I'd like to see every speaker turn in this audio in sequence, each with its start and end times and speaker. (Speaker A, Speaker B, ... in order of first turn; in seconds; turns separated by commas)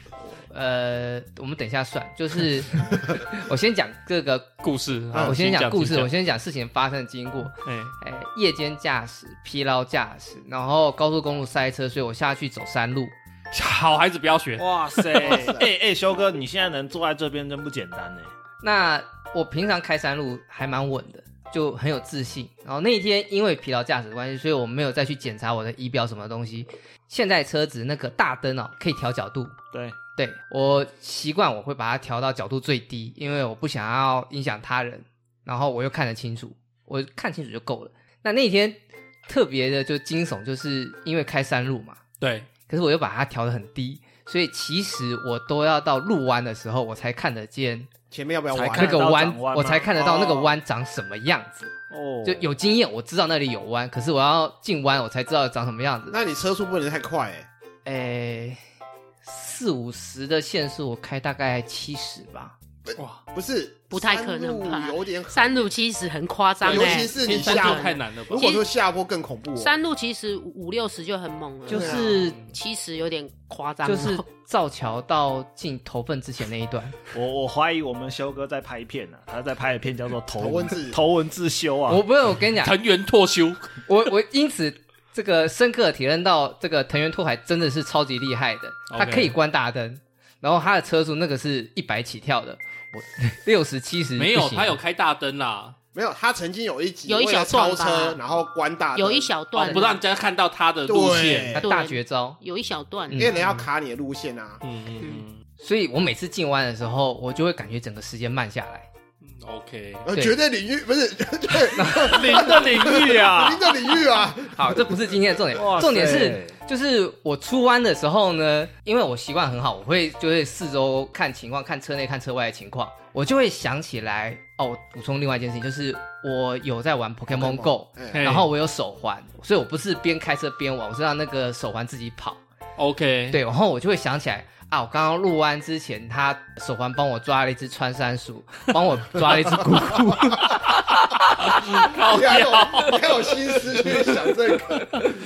Speaker A: 0.2-4.6, Speaker B: 4.6-6.1, Speaker C: 5.1-5.4, Speaker A: 5.1-13.1, Speaker B: 7.6-7.9, Speaker B: 13.5-15.5, Speaker D: 14.6-18.3, Speaker C: 15.2-15.7, Speaker A: 18.6-29.6, Speaker D: 29.7-30.0, Speaker A: 30.1-42.0, Speaker B: 42.2-42.5, Speaker A: 42.7-47.9, Speaker C: 48.1-49.0, Speaker D: 48.5-49.9, Speaker A: 48.7-51.7, Speaker C: 49.9-50.6, Speaker D: 51.9-52.5, Speaker A: 52.2-56.2, Speaker C: 56.1-57.5, Speaker A: 57.8-58.6, Speaker A: 59.2-62.5, Speaker C: 62.9-65.7, Speaker B: 63.0-63.2, Speaker E: 63.9-68.6, Speaker B: 66.6-68.5, Speaker C: 66.6-69.8, Speaker E: 69.6-74.2, Speaker A: 71.7-72.4, Speaker C: 71.7-72.2, Speaker B: 72.1-72.5, Speaker A: 73.8-77.1, Speaker D: 77.1-82.0, Speaker C: 80.3-81.0, Speaker A: 81.9-82.7, Speaker B: 82.6-83.8, Speaker A: 83.8-94.8, Speaker B: 88.9-89.3, Speaker B: 94.2-95.8, Speaker C: 95.9-99.3, Speaker E: 97.1-98.2, Speaker E: 99.0-100.0, Speaker B: 99.5-101.6, Speaker A: 99.6-99.9, Speaker C: 100.8-101.7, Speaker A: 101.5-102.4, Speaker E: 101.6-103.3, Speaker A: 103.1-103.4, Speaker C: 103.1-104.6, Speaker B: 104.6-105.4, Speaker A: 105.6-108.9, Speaker B: 109.2-110.1, Speaker C: 110.0-115.4, Speaker A: 111.7-112.5, Speaker D: 112.1-113.7, Speaker A: 114.5-132.4, Speaker D: 115.5-116.6, Speaker C: 127.3-128.3, Speaker B: 128.1-128.5, Speaker B: 132.8-133.4, Speaker A: 133.3-141.7, Speaker B: 141.4-144.0, Speaker C: 141.8-145.1